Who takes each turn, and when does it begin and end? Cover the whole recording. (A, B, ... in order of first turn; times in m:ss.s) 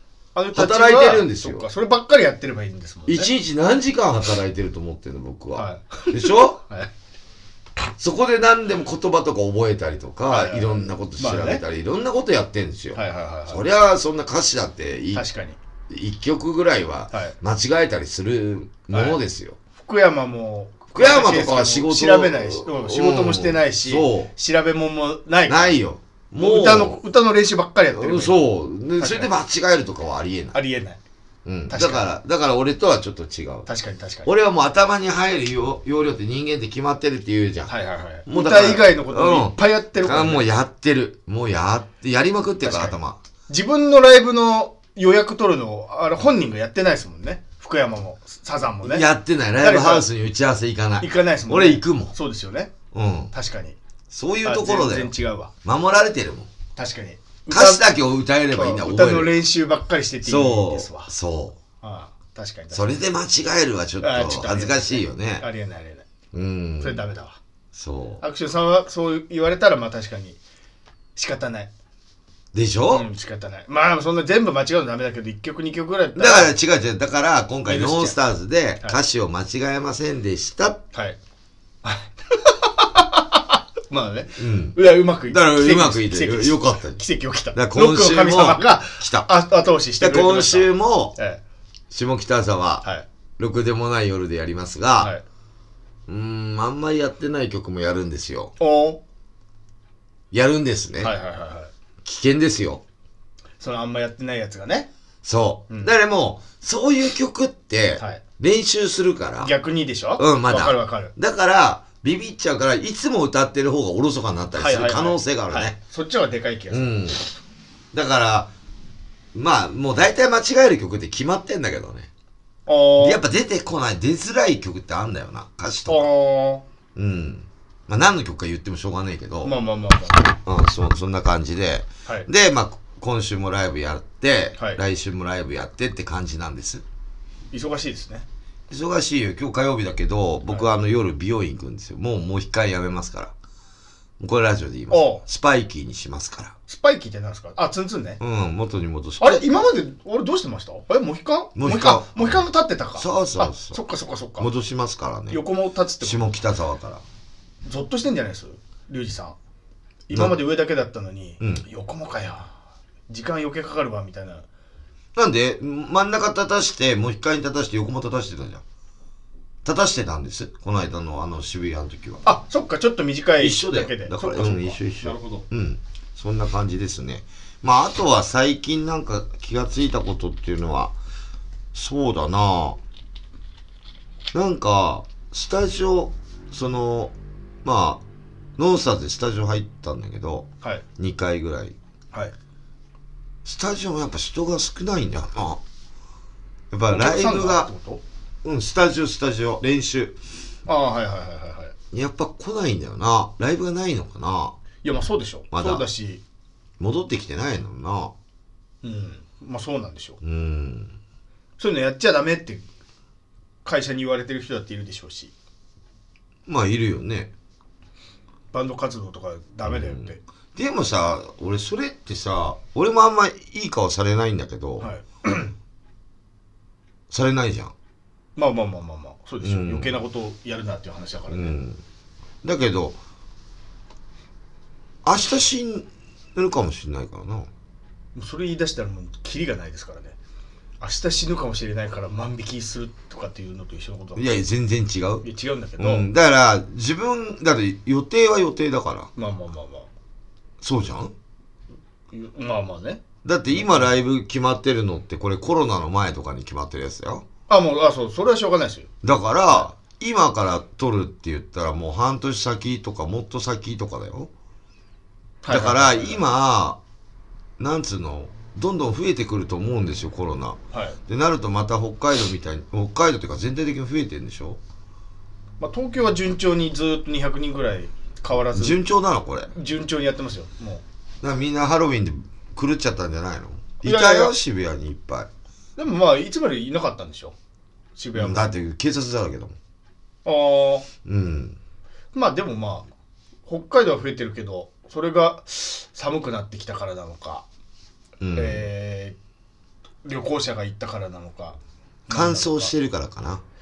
0:00.3-0:03.3 A
0:00.5-0:01.7 B
0:03.1-0:06.6 B
0:05.5-0:06.9 A
0:08.0-0:15.2 B
0:10.3-0:11.6 A
0:12.9-0:13.6 A
0:15.1-0:15.6 A
0:15.9-0:19.6 B
0:17.1-0:17.4 A
0:18.9-0:19.2 A
0:19.8-0:25.8 A
0:20.9-0:24.3 B
0:25.5-0:27.0 B
0:26.4-0:28.4 A
0:27.9-0:30.6 B
0:29.0-0:29.3 A
0:30.5-0:31.0 A
0:31.4-0:33.7 B
0:31.7-0:32.1 A
0:33.7-0:34.3 A
0:34.2-0:37.7 B
0:37.7-0:40.4 A
0:38.3-0:43.2 B
0:42.6-0:43.0 A
0:43.5-0:49.1 A
0:48.8-0:52.1 B
0:49.6-0:50.0 A
0:51.0-0:52.7 A
0:52.9-0:53.3 B
0:53.3-0:53.8 A
0:54.1-0:55.1 B
0:54.4-0:55.5 A
0:55.6-0:56.5 B
0:56.8-0:57.9 A
0:57.5-0:59.4 B
0:58.5-1:01.1 A
1:00.2-1:01.6 B
1:01.8-1:03.0 A
1:02.7-1:05.4 B
1:04.0-1:06.0 A
1:06.3-1:07.0 B
1:06.8-1:07.4 A
1:07.7-1:08.2 B
1:08.2-1:10.4 A
1:11.2-1:11.7 A
1:12.5-1:13.1 B
1:12.9-1:16.5 A
1:16.1-1:20.8 B
1:17.7-1:18.2 A
1:21.8-1:31.4 A
1:24.4-1:27.0 B
1:27.5-1:29.3 B
1:30.0-1:31.1 B
1:31.9-1:32.8 B
1:33.4-1:35.1 B
1:36.1-1:38.5 B
1:38.6-1:39.0 A
1:40.3-1:41.1 B
1:41.0-1:41.7 A
1:42.0-1:42.8 B
1:43.6-1:44.9 A
1:45.2-1:49.5 B
1:49.4-1:51.1 A
1:50.2-1:55.8 B
1:54.5-1:57.0 A
1:56.7-1:57.2 B
1:57.9-1:58.5 B
1:59.3-2:02.1 B
2:02.7-2:03.2 A
2:03.0-2:06.1 B
2:05.9-2:06.6 A
2:06.9-2:09.6 B
2:09.4-2:10.3 A
2:10.4-2:16.8 B
2:17.5-2:18.2 A
2:18.7-2:23.3 B
2:24.2-2:26.5 B
2:24.9-2:25.2 A
2:26.7-2:28.2 A
2:28.2-2:29.6 B
2:29.2-2:34.5 A
2:31.5-2:32.4 B
2:33.0-2:33.8 B
2:34.4-2:35.4 B
2:35.3-2:36.3 A
2:36.0-2:37.0 B
2:37.6-2:39.4 A
2:40.1-2:42.5 A
2:40.1-2:40.4 B
2:41.4-2:41.6 B
2:43.1-2:44.4 A
2:45.2-2:48.6 B
2:49.6-2:52.2 B
2:52.2-2:55.4 A
2:53.4-3:00.9 B
3:01.7-3:02.8 B
3:04.3-3:08.0 B
3:08.6-3:11.7 B
3:13.4-3:15.6 B
3:16.7-3:17.7 B
3:16.9-3:18.0 A
3:18.4-3:20.2 B
3:20.6-3:21.7 A
3:21.9-3:24.6 B
3:24.8-3:26.2 A
3:25.5-3:25.9 B
3:26.8-3:28.1 B
3:28.8-3:30.2 A
3:30.2-3:30.9 B
3:31.6-3:32.6 A
3:33.6-3:35.3 A
3:36.4-3:37.3 B
3:38.5-3:40.2 A
3:39.6-3:44.9 B
3:44.8-3:45.5 A
3:47.1-3:47.7 B
3:48.4-3:51.6 A
3:49.4-3:50.0 B
3:51.3-3:51.8 B
3:52.4-3:53.0 B
3:55.0-3:57.5 B
3:58.1-4:00.2 A
4:00.8-4:04.4 A
4:04.1-4:05.2 B
4:05.2-4:06.1 A
4:05.8-4:09.1 B
4:09.2-4:09.9 A
4:10.6-4:11.1 B
4:12.1-4:13.9 A
4:13.2-4:17.2 B
4:17.5-4:18.9 A
4:19.0-4:24.3 B
4:25.4-4:26.2 A
4:25.5-4:26.8 B
4:27.6-4:34.6 B
4:30.7-4:31.0 A
4:35.6-4:38.8 A
4:38.5-4:39.5 B
4:39.5-4:40.8 A
4:41.2-4:45.3 B
4:43.8-4:44.3 A
4:45.8-4:47.3 A
4:48.0-4:48.5 A
4:48.1-4:49.5 B
4:50.2-4:50.9 A
4:51.0-4:51.6 B
4:52.1-4:52.9 A
4:53.5-4:57.4 A
4:58.2-4:58.7 B
4:58.3-4:59.2 A
5:00.0-5:02.7 A
5:02.1-5:03.4 B